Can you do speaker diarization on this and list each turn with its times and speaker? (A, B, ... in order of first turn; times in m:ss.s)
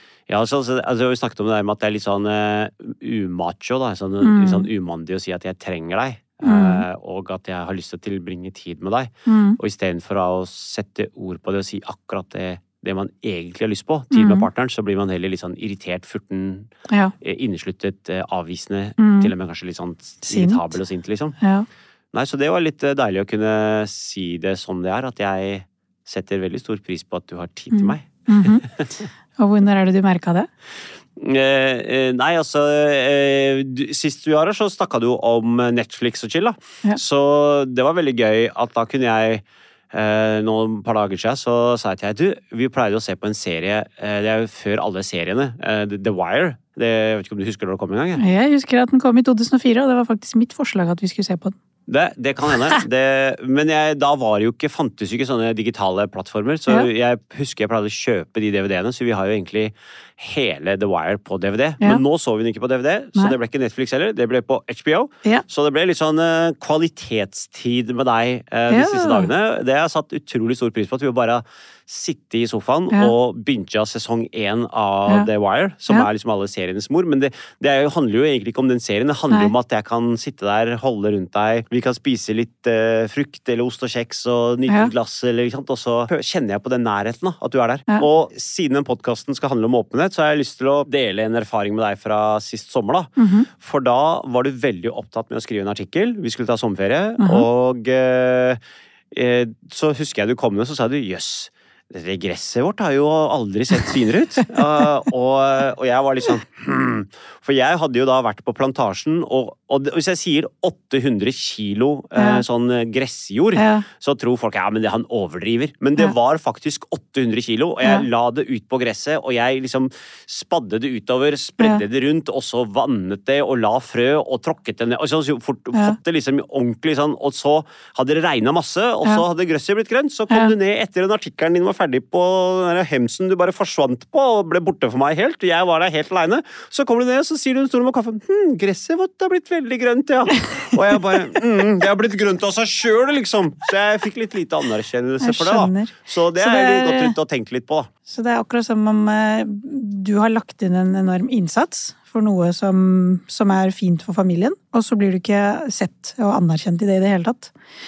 0:00.3-0:16.7 A
0:04.2-0:04.7 B
0:06.4-0:06.8 B
0:09.3-0:09.6 B
0:14.1-0:14.5 B
0:16.9-0:17.1 B
0:17.2-0:21.4 A
0:19.0-0:19.3 B
0:20.2-0:20.8 B
0:21.4-0:21.7 B
0:22.1-0:28.9 A
0:27.7-0:28.7 B
0:29.4-0:30.5 B
0:31.2-0:48.2 A
0:48.2-0:51.6 B
0:51.9-1:38.6 A
1:08.7-1:09.3 B
1:33.2-1:33.5 B
1:37.2-1:37.5 B
1:39.1-2:27.9 A
1:52.2-1:52.4 B
1:53.6-1:53.9 B
2:01.6-2:01.8 B
2:25.2-2:27.2 B
2:28.1-2:37.5 B